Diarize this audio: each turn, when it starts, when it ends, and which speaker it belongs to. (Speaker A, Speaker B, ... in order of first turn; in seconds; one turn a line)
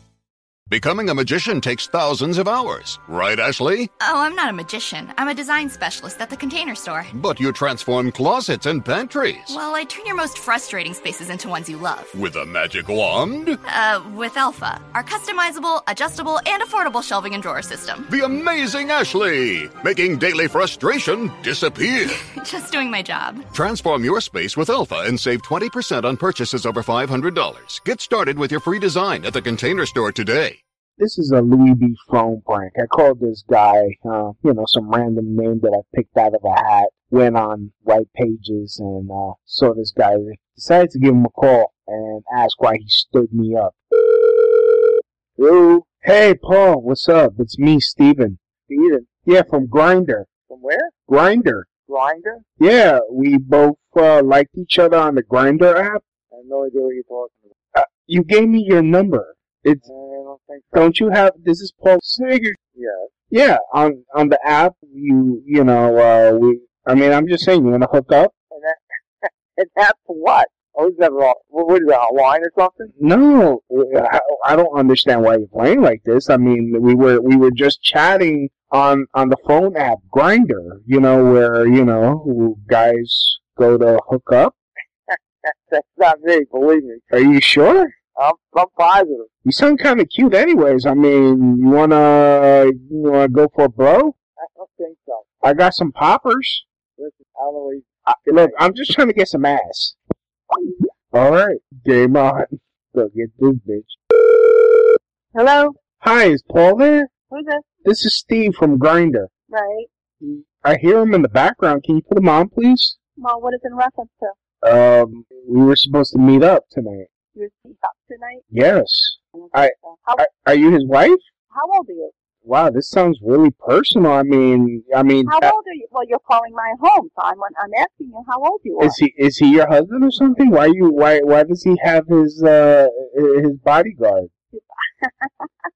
Speaker A: 0.7-3.9
Speaker B: 4.0-7.0
Speaker A: 7.1-9.6
Speaker B: 9.6-12.1
Speaker A: 12.1-13.6
Speaker B: 13.7-18.0
Speaker A: 18.1-22.2
Speaker B: 22.4-23.4
Speaker A: 23.5-30.6
Speaker C: 31.0-43.7
Speaker D: 45.4-46.0
Speaker C: 46.0-48.4
Speaker D: 48.7-49.2
Speaker C: 49.2-50.3
Speaker D: 50.5-51.0
Speaker C: 51.1-51.7
Speaker D: 51.7-52.4
Speaker C: 52.6-56.0
Speaker D: 56.3-57.5
Speaker C: 57.7-59.9
Speaker D: 59.8-60.9
Speaker C: 60.7-62.6
Speaker D: 62.7-63.1
Speaker C: 63.3-68.3
Speaker D: 68.5-72.9
Speaker C: 73.0-84.5
Speaker D: 85.4-87.1
Speaker C: 87.1-87.9
Speaker D: 88.1-89.3
Speaker C: 89.4-94.1
Speaker D: 94.4-95.4
Speaker C: 95.4-96.6
Speaker D: 97.0-98.6
Speaker C: 98.1-100.0
Speaker C: 101.1-104.0
Speaker E: 105.3-105.7
Speaker C: 106.0-107.1
Speaker E: 107.3-107.6
Speaker C: 107.8-109.3
Speaker E: 109.5-109.9
Speaker C: 110.2-113.0
Speaker E: 113.2-114.3
Speaker C: 114.6-117.1
Speaker E: 117.3-118.4
Speaker C: 118.5-121.2
Speaker E: 119.3-120.3
Speaker E: 121.5-122.1
Speaker C: 122.4-125.5
Speaker E: 125.2-129.0
Speaker C: 128.8-134.3
Speaker E: 134.5-135.5